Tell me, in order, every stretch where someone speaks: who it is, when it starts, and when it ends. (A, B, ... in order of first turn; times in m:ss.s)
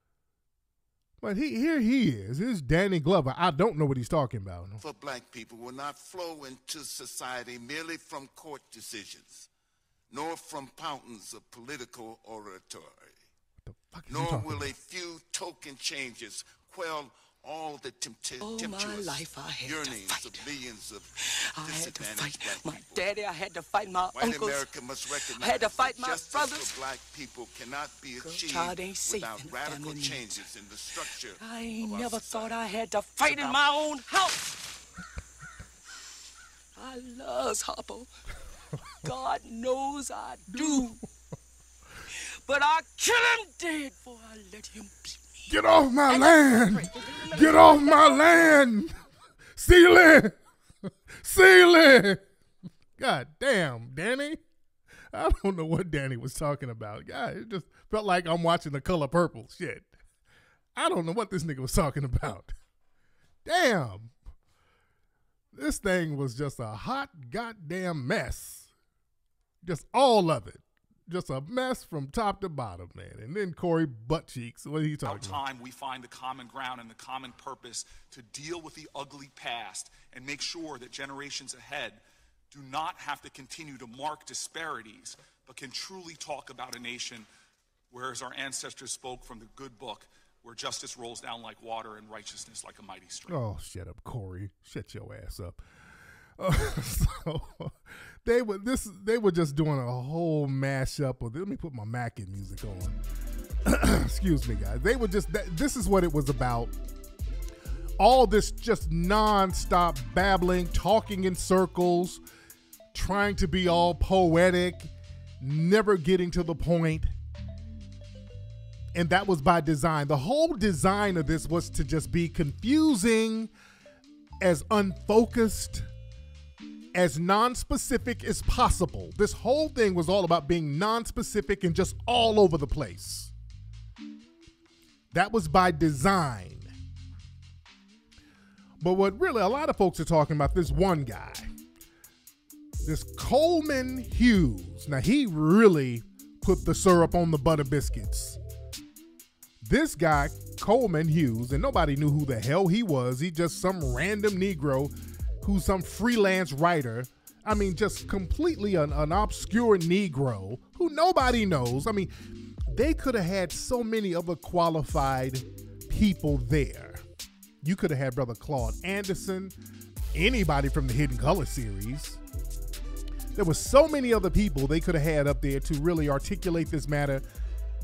0:01.2-0:04.8 A
0:04.8-0:09.5 B
0:10.1-0:13.1 B
0:13.7-0:14.7 A
0:14.1-0:21.1 B
0:18.4-0:20.5 C
0:21.5-0:26.7 C
0:21.6-0:23.1 B
0:24.1-0:32.5 B
0:28.2-0:30.4 C
0:31.4-0:34.5 C
0:33.2-0:33.6 B
0:36.8-0:38.1 C
0:39.0-0:41.0 C
0:42.4-0:45.5 C
0:45.5-0:48.9 A
0:46.1-0:48.6 C
0:49.6-0:50.4 A
0:51.2-0:52.2 A
0:53.0-0:54.4 A
0:55.1-0:59.9 A
1:00.8-1:02.5 A
1:03.4-1:04.1 A
1:05.5-1:08.7 A
1:09.6-1:15.4 A
1:15.0-1:27.3 D
1:27.9-1:33.4 D
1:33.3-1:35.6 A
1:36.4-1:43.0 A
1:43.6-1:46.7 A
1:48.0-1:52.2 A
1:52.9-1:54.9 A
1:55.4-1:57.1 A
1:58.9-2:03.5 A
2:04.4-2:05.8 A
2:06.9-2:13.3 A
2:15.1-2:16.7 A
2:18.8-2:21.5 A
2:22.8-2:28.4 A
2:29.6-2:42.1 A
2:42.7-2:47.0 A
2:47.6-2:49.5 A
2:50.1-2:52.2 A
2:53.4-2:57.2 A